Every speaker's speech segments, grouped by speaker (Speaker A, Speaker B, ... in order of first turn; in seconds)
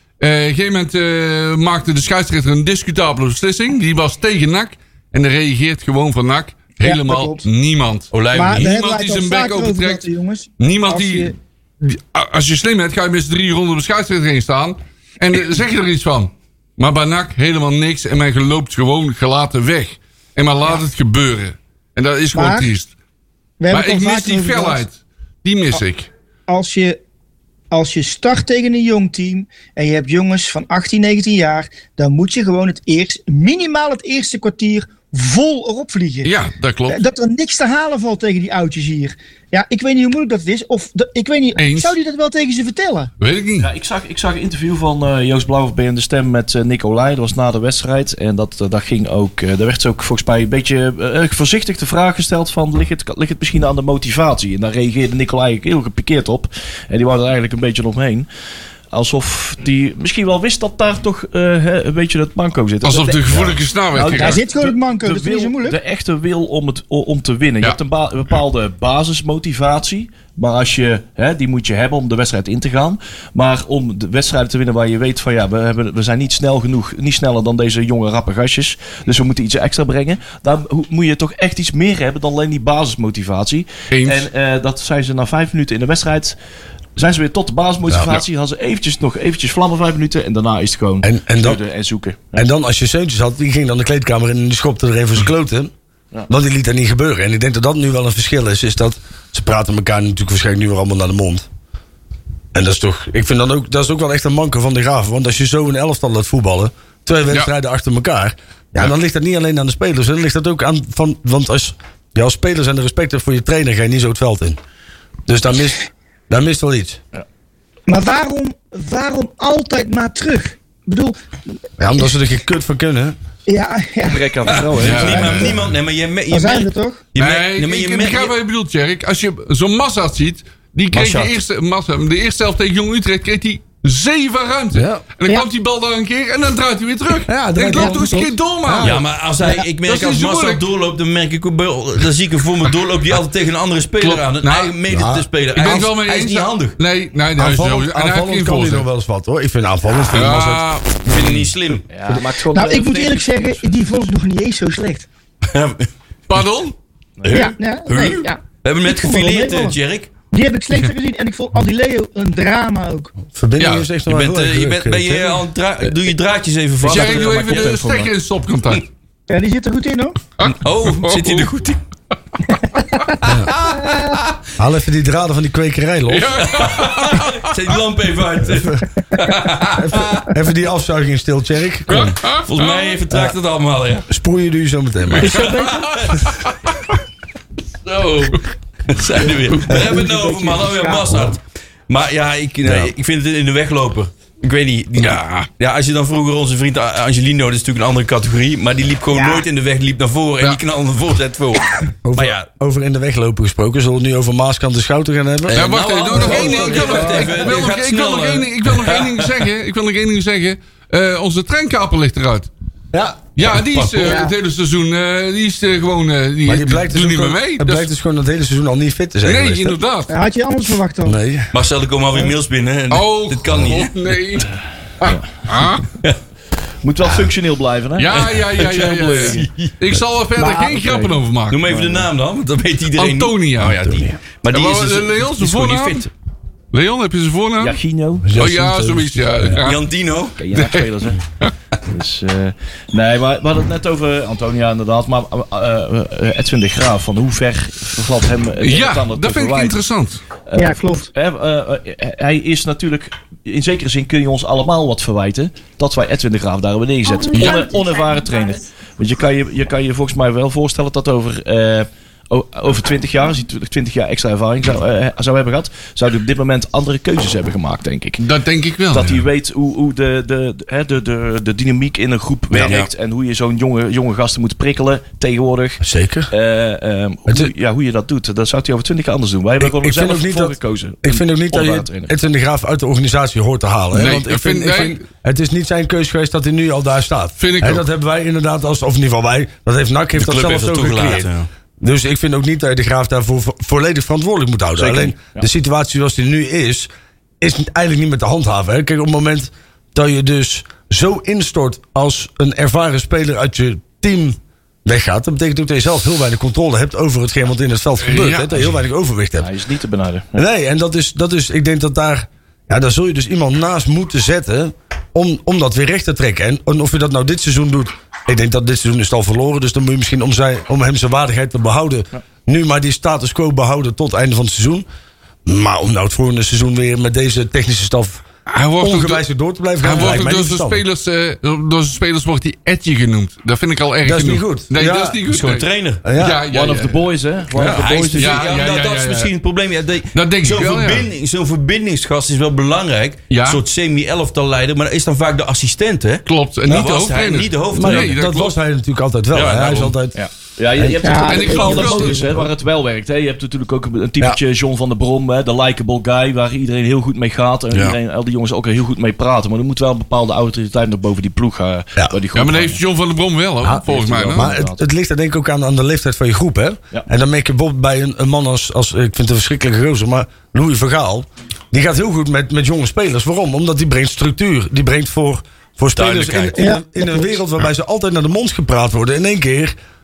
Speaker A: 0.2-10.0, 10.6-22.9, 23.7-26.1, 36.2-37.0, 41.6-42.0, 43.2-43.7, 62.8-64.4, 83.9-84.3, 124.8-125.5, 127.2-139.0, 139.8-140.6, 144.0-144.7, 145.5-148.9, 150.1-151.5, 156.3-156.8, 163.6-163.9, 166.8-168.9, 170.4-171.5, 176.1-177.6, 181.9-183.0, 185.1-186.5, 205.5-212.5, 213.4-217.9, 219.2-220.1, 222.9-225.9, 228.0-231.6, 232.9-233.8, 234.5-236.1, 236.7-237.8, 238.3-239.8, 240.5-241.5, 248.6-250.2, 257.3-257.7, 268.2-269.2, 283.9-285.0, 287.4-287.9, 308.0-308.7, 328.5-329.2, 329.8-337.0, 338.2-339.3, 340.1-341.1, 343.3-343.6, 346.3-348.5, 351.2-352.2, 362.3-364.5
Speaker B: 6.8-7.5, 8.3-11.3, 22.3-22.7, 23.6-24.8, 26.5-27.0, 27.7-36.3, 36.9-43.1, 64.1-65.8, 117.9-121.2, 123.5-125.6, 126.3-127.0, 152.5-155.1, 157.3-159.8, 160.3-163.1, 169.3-170.2, 185.2-185.9, 189.9-191.1, 199.1-199.4, 214.1-214.3, 220.1-221.2, 230.4-230.8, 250.6-251.1, 351.0-352.1, 376.6-377.2
Speaker C: 8.1-8.7, 124.5-128.3, 130.9-131.3, 138.8-146.8, 150.2-151.9, 155.5-155.9, 157.2-160.1, 164.1-167.9, 170.4-171.8, 173.2-174.4, 176.4-180.3, 182.5-184.1, 185.2-186.3, 187.8-202.4, 205.5-209.4, 221.5-223.9, 228.4-229.7, 231.5-236.1, 239.6-240.4, 272.6-272.9, 290.2-291.5, 335.3-336.0, 337.6-348.2, 349.3-350.0, 357.7-358.0, 376.0-376.6
Speaker D: 43.6-58.3, 58.9-86.4, 87.0-92.5, 124.1-125.5, 151.9-153.5, 157.2-157.5, 166.8-168.1, 226.8-229.4, 230.7-231.1, 231.7-232.1, 237.6-238.4, 240.4-241.2, 241.8-249.8, 250.5-268.2, 268.9-282.1, 294.8-295.5, 309.4-310.4, 336.5-338.4, 350.1-362.8, 363.9-364.8
Speaker E: 91.0-91.6, 92.4-95.7, 96.3-101.5, 102.5-114.6, 115.3-117.0, 121.8-123.2, 134.7-135.0, 137.3-139.0, 144.9-145.8, 147.4-150.7, 163.3-165.4, 173.3-173.5, 174.6-176.6, 178.4-178.8, 179.7-182.2, 184.1-185.6, 189.7-190.0, 191.1-191.3, 192.6-192.9, 202.0-207.6, 212.9-214.1, 216.4-219.8, 221.1-221.5, 238.2-239.6, 275.8-276.3, 279.6-296.9, 297.4-309.5, 310.4-324.9, 325.5-328.2, 328.8-330.8, 334.0-335.2, 336.0-336.4, 337.6-338.4, 347.7-350.2, 350.8-352.4, 363.6-379.8